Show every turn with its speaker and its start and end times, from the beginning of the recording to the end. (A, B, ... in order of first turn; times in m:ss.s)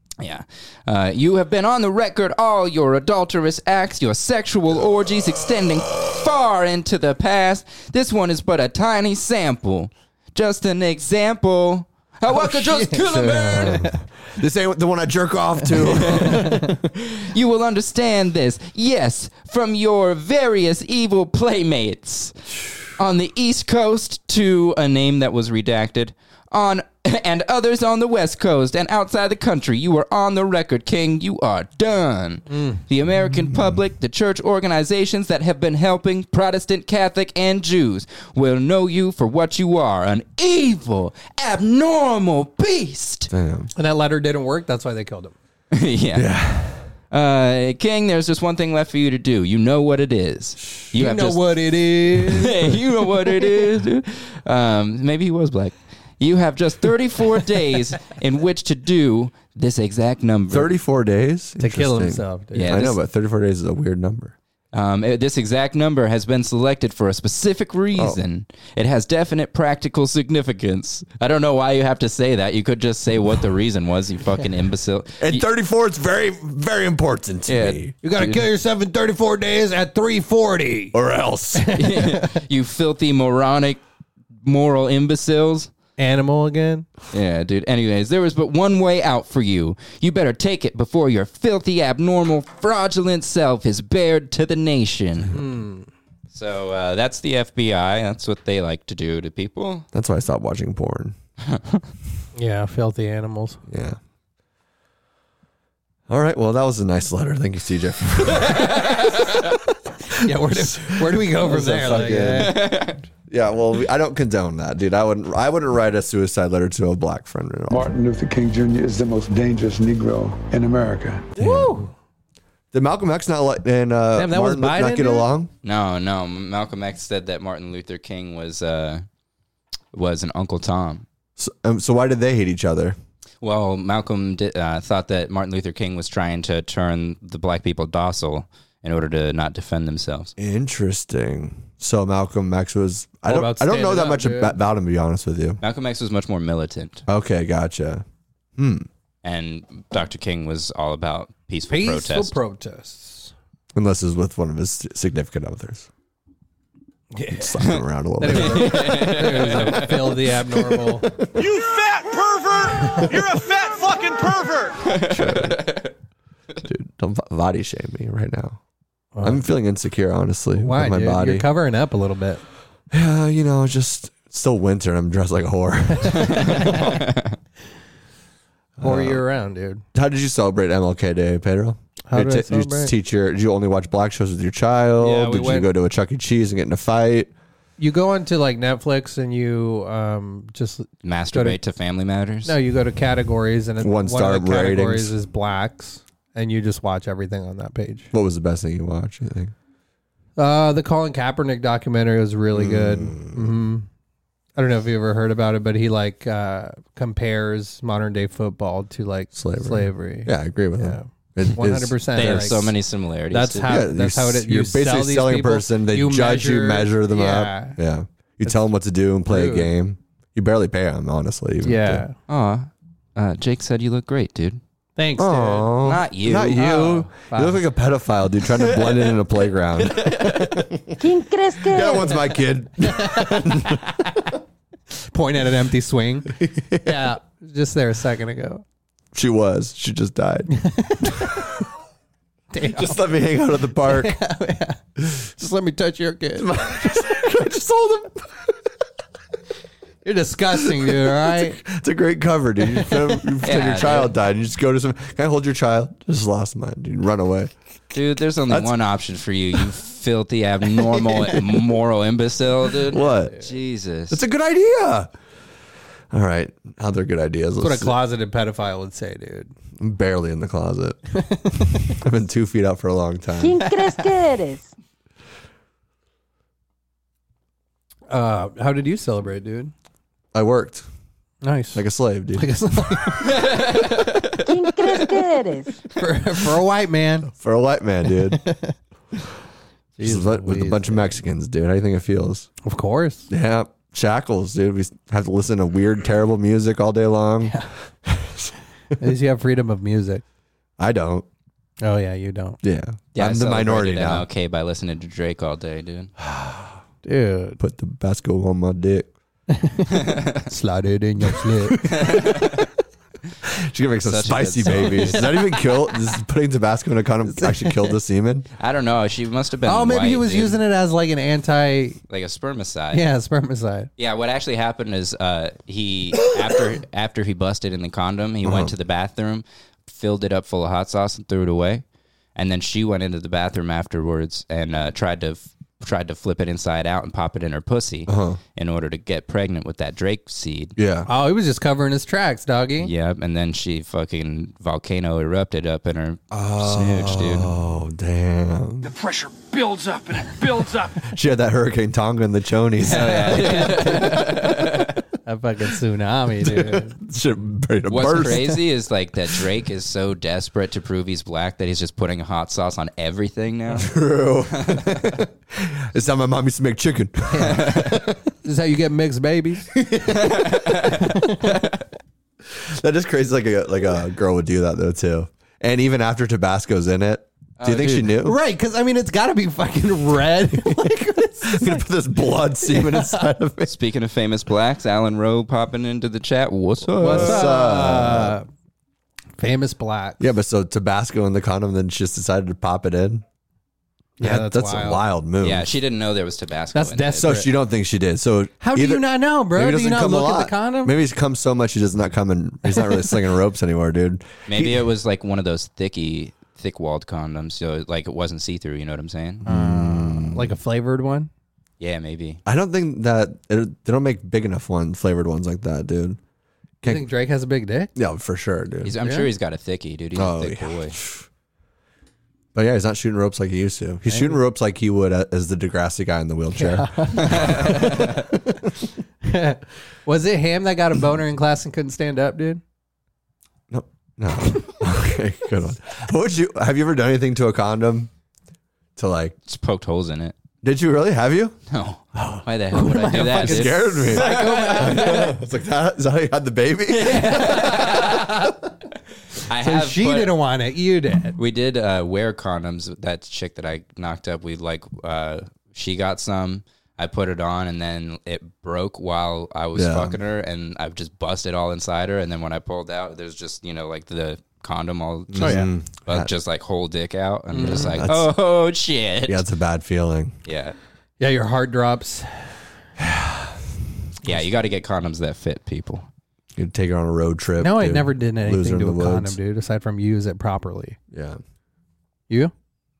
0:00.2-0:13.9 A
0:12.3-0:13.9 B
0:13.0-0:16.8 C
0:15.8-0:43.3 A
0:32.5-0:32.8 B
0:33.5-0:33.8 C
0:43.3-0:43.7 C
0:43.7-0:45.3 B
0:45.7-0:46.3 A
0:46.1-0:46.9 C
0:47.1-0:51.5 A
0:50.9-0:52.8 B
0:52.1-1:00.7 A
1:00.5-1:04.3 C
1:01.6-1:02.9 B
1:02.5-1:03.0 A
1:04.7-1:15.4 A
1:07.9-1:08.2 C
1:15.2-1:17.9 C
1:17.5-1:18.4 A
1:18.0-1:21.0 B
1:20.9-1:21.8 C
1:21.6-1:22.4 B
1:21.7-1:23.8 A
1:24.4-1:25.7 A
1:26.0-1:26.9 B
1:27.1-1:35.4 A
1:35.3-1:35.9 B
1:36.3-1:39.8 A
1:39.9-1:41.1 C
1:41.5-1:41.8 A
1:42.4-1:43.6 B
1:43.7-1:44.0 C
1:46.1-1:49.2 C
1:50.1-1:52.5 B
1:50.5-1:52.7 C
1:52.3-1:53.0 A
1:53.3-1:57.9 C
1:57.7-2:01.3 D
2:01.4-2:01.9 B
2:01.4-2:01.8 C
2:02.7-2:05.5 C
2:04.1-2:05.3 B
2:05.6-2:09.0 A
2:09.9-2:11.0 A
2:11.4-2:13.0 C
2:13.4-2:20.3 A
2:20.4-2:25.6 C
2:23.3-2:24.6 B
2:25.6-2:27.0 A
2:27.1-2:28.0 C
2:28.6-2:28.9 C
2:29.2-2:32.4 A
2:31.7-2:33.3 B
2:33.7-2:35.9 C
2:37.1-2:37.6 B
2:37.3-2:39.2 C
2:38.2-2:41.0 B
2:38.3-2:40.2 A
2:40.7-2:41.4 C
2:41.3-2:44.9 E
2:44.8-2:45.9 A
2:45.0-2:45.7 C
2:46.6-2:48.6 C
2:49.1-2:49.4 B
2:49.2-2:51.5 C
2:50.5-2:52.4 B
2:52.9-2:56.8 C
2:56.1-2:57.4 A
2:56.1-2:56.8 B
2:58.8-2:59.2 C
2:58.8-2:59.8 B
2:59.9-3:07.3 C
3:02.1-3:02.9 B
3:05.0-3:05.7 B
3:07.8-3:11.6 B
3:11.0-3:12.5 A
3:12.4-3:18.1 B
3:13.8-3:15.1 C
3:18.1-3:19.5 C
3:20.4-3:23.9 B
3:22.5-3:23.5 C
3:24.6-3:32.7 B
3:29.3-3:32.5 C
3:32.1-3:33.8 A
3:33.3-3:37.8 B
3:33.6-3:42.0 C
3:39.3-3:39.7 B
3:41.6-3:42.1 B
3:42.3-3:44.6 A
3:45.0-3:45.8 B
3:45.2-3:51.0 C
3:45.8-3:47.1 A
3:46.6-3:47.6 B
3:48.5-3:49.2 A
3:49.8-3:50.6 A
3:51.0-3:52.3 F
3:51.7-3:54.3 C
3:52.8-3:53.8 B
3:55.1-3:58.6 B
3:56.4-3:57.1 C
3:59.1-4:01.6 C
4:00.5-4:01.5 B
4:02.5-4:03.1 B
4:02.6-4:04.2 C
4:03.7-4:06.9 B
4:06.4-4:08.6 C
4:10.0-4:11.6 B
4:10.5-4:17.5 C
4:13.4-4:14.1 A
4:17.9-4:24.2 A
4:22.8-4:23.4 C
4:24.1-4:25.1 C
4:26.1-4:27.9 C
4:27.6-4:29.5 B
4:29.8-4:31.0 C
4:31.2-4:32.0 B
4:31.5-4:33.6 C
4:33.4-4:34.7 F
4:38.1-4:39.7 B
4:40.3-4:40.8 C
4:41.4-4:41.8 B
4:41.7-4:42.5 C
4:42.4-4:43.6 B
4:43.2-4:44.4 A
4:44.4-4:45.7 F
4:45.9-4:47.3 B
4:47.3-4:48.4 C
4:48.3-4:48.7 B
4:50.0-4:51.2 B
4:50.0-4:52.5 C
4:52.6-4:53.3 B
4:53.3-4:59.0 C
4:57.4-4:57.7 B
4:59.0-5:00.2 B
5:00.8-5:01.2 C
5:01.8-5:02.6 B
5:02.6-5:04.2 C
5:03.1-5:06.1 A
5:06.2-5:06.8 C
5:07.0-5:07.6 B
5:07.6-5:09.1 C
5:09.5-5:11.9 B
5:09.9-5:10.4 A
5:11.6-5:12.6 C
5:11.9-5:12.7 A
5:13.4-5:18.5 C
5:14.0-5:15.3 A
5:14.8-5:15.6 B
5:17.3-5:17.9 B
5:18.6-5:20.6 A
5:19.6-5:22.0 B
5:22.1-5:23.0 A
5:22.9-5:23.9 B
5:24.0-5:31.8 A
5:28.4-5:28.7 C
5:32.4-5:40.7 A
5:38.1-5:38.4 C
5:40.8-5:41.1 C
5:41.1-5:42.9 B
5:42.8-5:47.5 A
5:46.3-5:49.0 C
5:49.2-5:50.7 B
5:50.9-5:53.9 C
5:52.8-5:54.4 B
5:52.8-5:55.0 A
5:55.2-5:57.0 B
5:56.4-5:58.6 C
5:57.9-6:03.9 A
6:03.7-6:08.2 C
6:04.6-6:05.0 A
6:07.3-6:09.8 B
6:10.1-6:11.8 A
6:10.8-6:11.6 B
6:12.5-6:18.4 C
6:17.6-6:18.2 A
6:18.2-6:21.8 B
6:20.6-6:23.7 C
6:22.6-6:23.2 B
6:23.7-6:27.5 A
6:27.0-6:28.4 C
6:27.0-6:28.4 B
6:29.4-6:30.2 B
6:30.2-6:33.2 C
6:34.2-6:35.0 B
6:34.2-6:35.8 C
6:35.4-6:37.4 A
6:36.7-6:37.5 B
6:37.2-6:44.8 C
6:38.6-6:40.9 B
6:44.5-6:49.4 A
6:49.4-6:50.6 C
6:49.4-6:51.3 B
6:51.8-6:52.4 A
6:52.4-6:56.2 C
6:56.8-6:57.1 C
6:56.8-6:57.9 B
6:58.0-6:59.0 C
6:58.8-7:01.0 A
6:59.0-6:59.3 B
7:00.1-7:01.2 C
7:02.5-7:08.7 C
7:04.1-7:04.4 B
7:06.5-7:08.2 B
7:07.2-7:07.9 A
7:09.2-7:12.6 B
7:13.7-7:18.1 C
7:19.0-7:19.3 C
7:19.5-7:20.3 A
7:20.6-7:21.6 C
7:21.7-7:25.3 A
7:22.2-7:22.4 C
7:22.7-7:25.4 B
7:23.1-7:28.0 C
7:26.9-7:28.3 A
7:27.9-7:28.5 B
7:29.4-7:30.3 A
7:29.6-7:31.4 B
7:31.4-7:49.4 A
7:39.7-7:40.2 C
7:45.3-7:46.3 C
7:45.4-7:45.7 B
7:47.5-7:48.0 B
7:47.6-7:48.3 C
7:49.3-7:50.3 C
7:50.4-7:50.8 A
7:51.2-7:52.5 B
7:53.0-7:53.6 C
7:54.2-7:56.0 A
7:56.6-7:59.4 C
7:57.6-8:01.0 B
8:01.1-8:01.4 C